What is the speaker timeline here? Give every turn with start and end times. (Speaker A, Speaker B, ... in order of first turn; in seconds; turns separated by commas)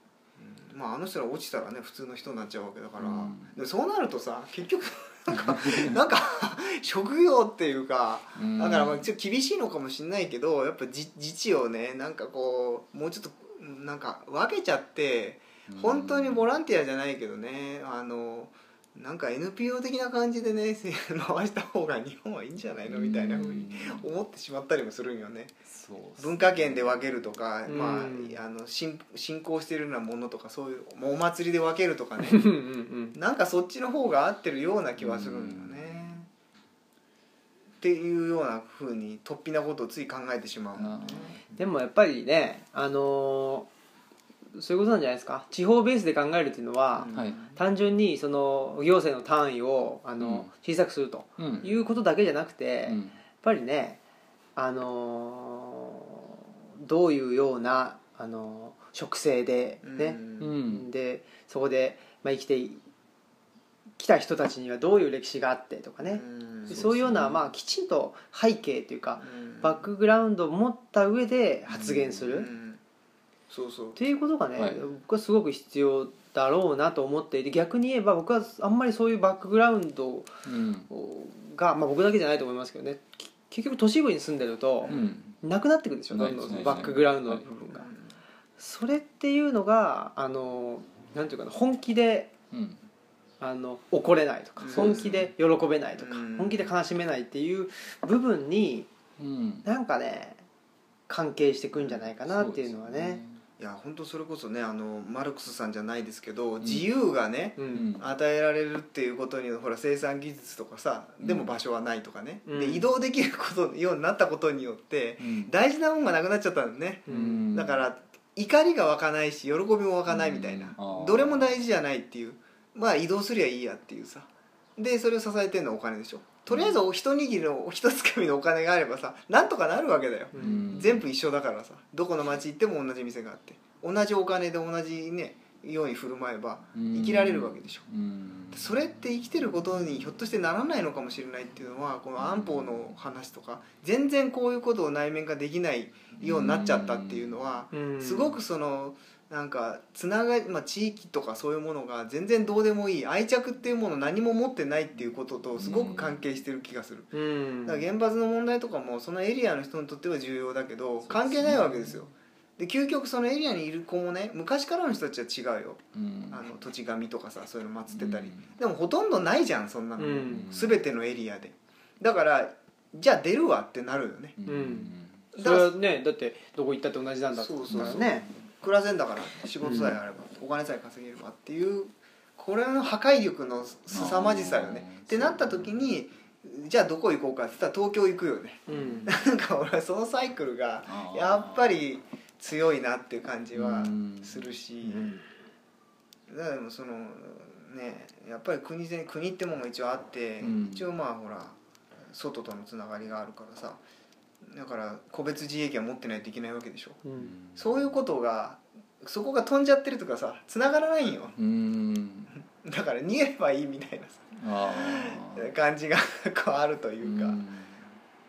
Speaker A: 0.4-25.6, Speaker B: 3.0-3.5, Speaker B: 5.3-6.0, Speaker B: 8.3-9.1, Speaker B: 15.7-16.5, Speaker B: 22.9-24.1, Speaker B: 25.6-27.0, Speaker A: 26.2-32.5, Speaker C: 27.7-28.4, Speaker C: 32.2-33.2, Speaker A: 33.1-36.3, Speaker B: 35.0-36.2, Speaker A: 37.8-41.4, Speaker B: 40.8-41.7, Speaker C: 41.6-43.7, Speaker C: 44.5-54.0, Speaker A: 47.0-47.5, Speaker B: 47.1-47.4, Speaker B: 50.2-50.5, Speaker B: 51.4-51.8, Speaker B: 52.9-53.2, Speaker C: 54.6-62.8, Speaker A: 59.8-60.5, Speaker B: 60.4-60.9, Speaker C: 64.0-72.5, Speaker A: 66.1-66.8, Speaker B: 66.7-67.5, Speaker A: 69.2-69.8, Speaker B: 71.7-72.5, Speaker A: 72.3-72.8, Speaker A: 73.5-74.0, Speaker C: 74.0-87.9, Speaker B: 74.6-74.8, Speaker B: 80.5-80.9, Speaker A: 84.8-85.2, Speaker B: 84.9-85.4, Speaker B: 86.1-87.5, Speaker A: 87.7-88.2, Speaker C: 88.6-92.3, Speaker B: 92.5-92.8, Speaker C: 93.4-98.9, Speaker A: 94.6-95.2, Speaker B: 94.7-95.3, Speaker A: 96.0-96.7, Speaker B: 99.2-99.7, Speaker C: 99.6-100.4, Speaker C: 101.1-103.2, Speaker B: 101.8-103.4, Speaker A: 103.6-137.8, Speaker B: 106.6-106.9, Speaker C: 107.6-107.9, Speaker B: 107.7-108.0, Speaker B: 111.2-111.5, Speaker C: 112.5-112.9, Speaker B: 115.2-115.5, Speaker C: 117.1-117.5, Speaker B: 117.1-117.9, Speaker B: 120.1-121.6, Speaker B: 126.5-126.8, Speaker C: 130.3-130.7, Speaker B: 130.3-131.1, Speaker B: 136.7-138.7, Speaker A: 138.5-157.1, Speaker B: 142.2-142.5, Speaker B: 146.2-147.4, Speaker C: 147.7-148.4, Speaker B: 155.6-156.2, Speaker C: 157.1-157.9, Speaker A: 157.6-174.4, Speaker B: 161.0-162.1, Speaker B: 165.9-166.5, Speaker B: 167.9-168.5, Speaker C: 170.0-170.5, Speaker B: 170.3-170.8, Speaker B: 174.4-175.2, Speaker C: 174.5-178.3, Speaker A: 175.4-175.7, Speaker A: 177.3-195.2, Speaker B: 177.7-178.4, Speaker C: 179.6-179.9, Speaker B: 183.9-185.7, Speaker C: 188.7-189.1, Speaker B: 188.7-189.1, Speaker B: 190.9-191.8, Speaker B: 193.5-194.5, Speaker C: 194.9-195.2, Speaker A: 196.3-201.6, Speaker B: 200.4-200.9, Speaker A: 202.1-203.8, Speaker A: 204.4-207.0, Speaker C: 207.1-207.3, Speaker B: 207.2-208.0, Speaker A: 207.6-211.3, Speaker B: 211.4-212.3, Speaker A: 212.6-217.4, Speaker B: 214.4-215.5, Speaker B: 217.0-217.9